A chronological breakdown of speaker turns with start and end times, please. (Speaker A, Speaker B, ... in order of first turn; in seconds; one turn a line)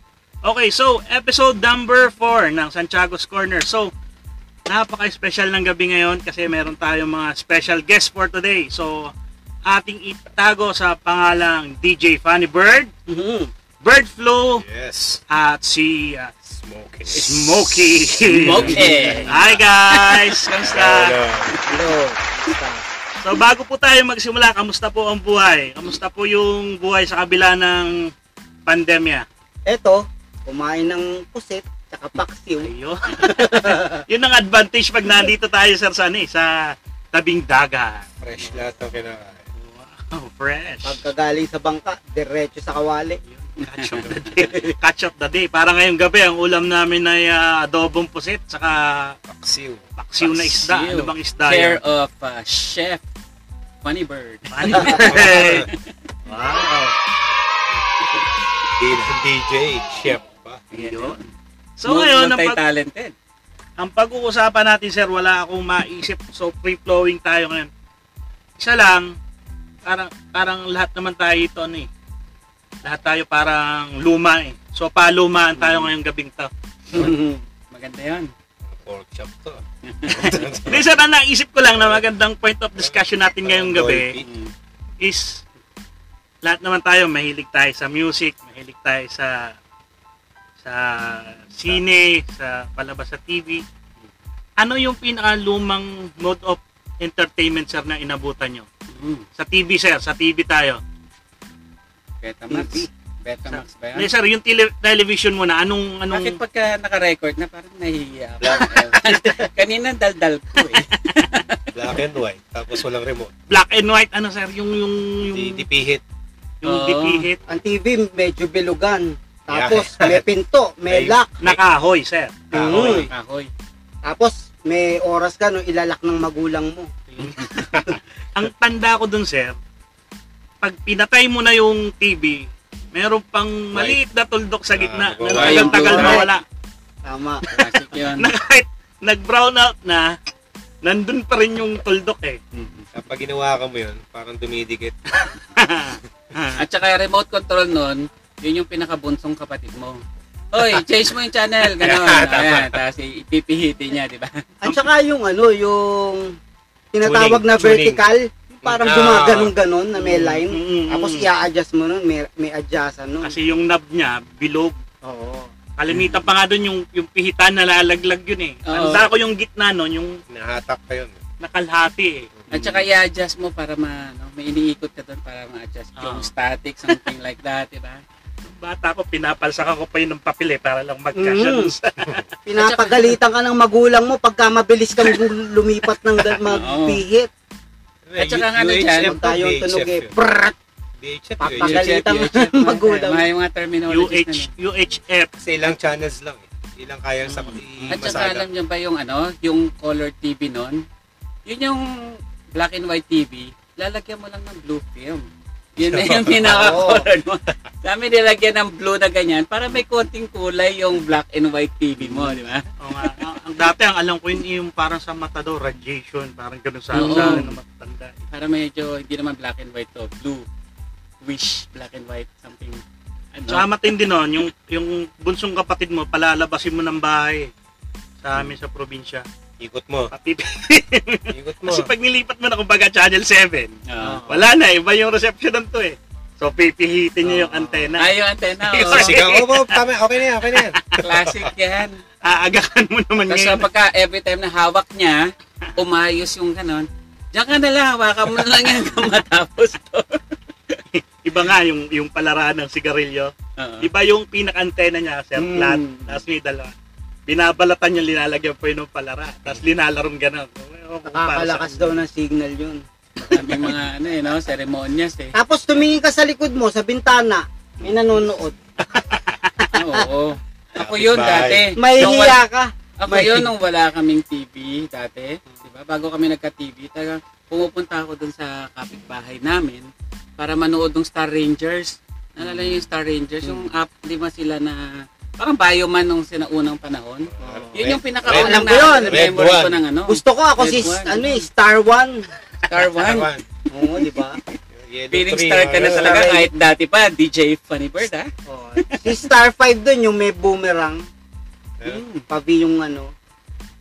Speaker A: 0.4-3.9
Speaker A: 4.7-9.1
Speaker A: 9.7-12.9
Speaker B: 13.1-13.5
Speaker A: 13.8-14.6
Speaker C: 14.6-15.2
Speaker A: 15.3-16.3
Speaker C: 16.5-19.6
Speaker A: 17.1-21.2
Speaker D: 18.3-19.3
Speaker B: 18.6-19.3
Speaker D: 20.0-20.3
Speaker C: 20.6-21.6
Speaker B: 21.6-22.8
Speaker A: 23.2-28.1
Speaker A: 28.7-29.3
Speaker B: 29.7-34.0
Speaker A: 32.6-36.5
Speaker A: 37.1-38.6
Speaker C: 38.2-39.5
Speaker A: 39.6-41.0
Speaker B: 40.8-43.2
Speaker A: 43.3-49.2
Speaker D: 43.6-44.5
Speaker C: 49.3-49.8
Speaker A: 50.0-51.8
Speaker D: 50.2-53.0
Speaker D: 53.8-55.8
Speaker A: 54.5-55.6
Speaker C: 55.0-55.7
Speaker A: 56.3-57.0
Speaker C: 58.8-60.7
Speaker A: 60.7-61.2
Speaker D: 60.7-61.3
Speaker A: 61.8-62.6
Speaker D: 61.9-63.1
Speaker A: 63.8-67.7
Speaker A: 68.6-69.2
Speaker A: 69.8-71.9
Speaker A: 72.8-76.5
Speaker D: 75.6-75.9
Speaker B: 76.9-77.4
Speaker D: 77.7-78.3
Speaker C: 78.7-80.9
Speaker D: 79.9-80.6
Speaker A: 80.7-84.2
Speaker C: 81.7-82.0
Speaker C: 82.8-84.3
Speaker D: 84.2-84.5
Speaker A: 85.0-85.4
Speaker A: 86.4-89.6
Speaker A: 90.6-93.6
Speaker A: 94.6-98.7
Speaker D: 98.9-99.3
Speaker A: 99.4-100.8
Speaker D: 102.2-104.1
Speaker B: 102.5-102.9
Speaker A: 103.5-106.4
Speaker D: 106.1-111.6
Speaker C: 108.4-109.4
Speaker C: 111.7-113.3
Speaker A: 113.5-115.7
Speaker C: 115.2-116.0
Speaker A: 116.6-117.4
Speaker D: 116.7-117.3
Speaker B: 117.5-121.3
Speaker C: 119.5-120.3
Speaker C: 120.9-121.6
Speaker A: 121.4-122.5
Speaker B: 122.5-123.1
Speaker C: 122.5-123.1
Speaker D: 122.6-123.5
Speaker B: 124.0-126.9
Speaker A: 127.1-127.7
Speaker C: 127.6-127.8
Speaker A: 128.3-129.6
Speaker A: 130.6-136.4
Speaker C: 133.7-134.0
Speaker C: 134.7-135.7
Speaker D: 135.3-136.3
Speaker B: 135.5-136.3
Speaker B: 137.1-137.6
Speaker D: 137.5-138.3
Speaker A: 138.0-140.1
Speaker A: 140.8-142.4
Speaker D: 142.5-142.9
Speaker C: 142.9-145.0
Speaker A: 145.2-146.6
Speaker D: 146.6-150.0
Speaker D: 150.5-154.4
Speaker C: 151.6-152.8
Speaker B: 154.6-156.4
Speaker B: 156.9-163.4
Speaker C: 157.0-158.1
Speaker C: 158.6-159.5
Speaker A: 160.1-161.3
Speaker A: 163.2-164.8
Speaker B: 165.0-165.5
Speaker A: 165.8-170.2
Speaker D: 168.7-169.1
Speaker C: 170.3-171.2
Speaker A: 171.4-172.3
Speaker D: 172.5-178.0
Speaker B: 172.5-172.8
Speaker A: 176.0-176.3
Speaker A: 178.5-182.2
Speaker B: 181.2-181.7
Speaker B: 182.5-187.3
Speaker D: 182.6-183.2
Speaker D: 186.5-187.0
Speaker C: 188.1-190.2
Speaker D: 188.2-189.1
Speaker B: 189.0-190.6
Speaker C: 191.0-191.9
Speaker B: 191.4-193.3
Speaker D: 191.5-194.5
Speaker A: 193.9-195.3
Speaker C: 195.4-198.5
Speaker B: 197.3-197.6
Speaker D: 197.9-200.8
Speaker D: 201.5-212.7
Speaker C: 205.8-207.0
Speaker B: 206.4-207.1
Speaker B: 212.0-212.4
Speaker A: 212.8-218.2
Speaker D: 216.9-217.5
Speaker B: 216.9-217.5
Speaker D: 218.3-220.4
Speaker D: 221.2-222.8
Speaker D: 223.3-223.7
Speaker A: 223.5-227.5
Speaker A: 228.2-229.3
Speaker C: 229.6-230.1
Speaker A: 230.1-233.8
Speaker C: 231.3-231.9
Speaker D: 233.9-234.3
Speaker B: 234.0-234.5
Speaker A: 234.3-238.2
Speaker B: 237.2-237.9
Speaker D: 238.0-239.2
Speaker C: 238.7-240.8
Speaker A: 238.8-239.8
Speaker A: 240.5-241.0
Speaker D: 240.9-242.0
Speaker A: 242.2-243.6
Speaker D: 243.3-250.8
Speaker A: 250.9-256.7
Speaker D: 253.6-253.9
Speaker B: 255.4-256.0
Speaker D: 255.6-256.0
Speaker A: 257.3-261.8
Speaker B: 261.1-262.8
Speaker D: 263.2-265.4
Speaker B: 265.3-268.6
Speaker C: 268.8-269.4
Speaker B: 269.6-270.1
Speaker D: 269.7-272.4
Speaker C: 270.8-271.7
Speaker B: 271.8-273.5
Speaker D: 273.0-291.5
Speaker B: 282.4-282.8
Speaker B: 283.4-283.7
Speaker C: 287.3-289.8
Speaker B: 287.4-287.7
Speaker B: 288.3-289.3
Speaker B: 290.1-292.3
Speaker D: 292.7-293.3
Speaker C: 292.7-293.4
Speaker B: 293.7-294.4
Speaker D: 294.0-294.6
Speaker C: 294.7-296.3
Speaker D: 295.1-299.2
Speaker B: 295.8-296.5
Speaker B: 298.5-301.1
Speaker D: 301.9-302.2
Speaker B: 302.3-303.1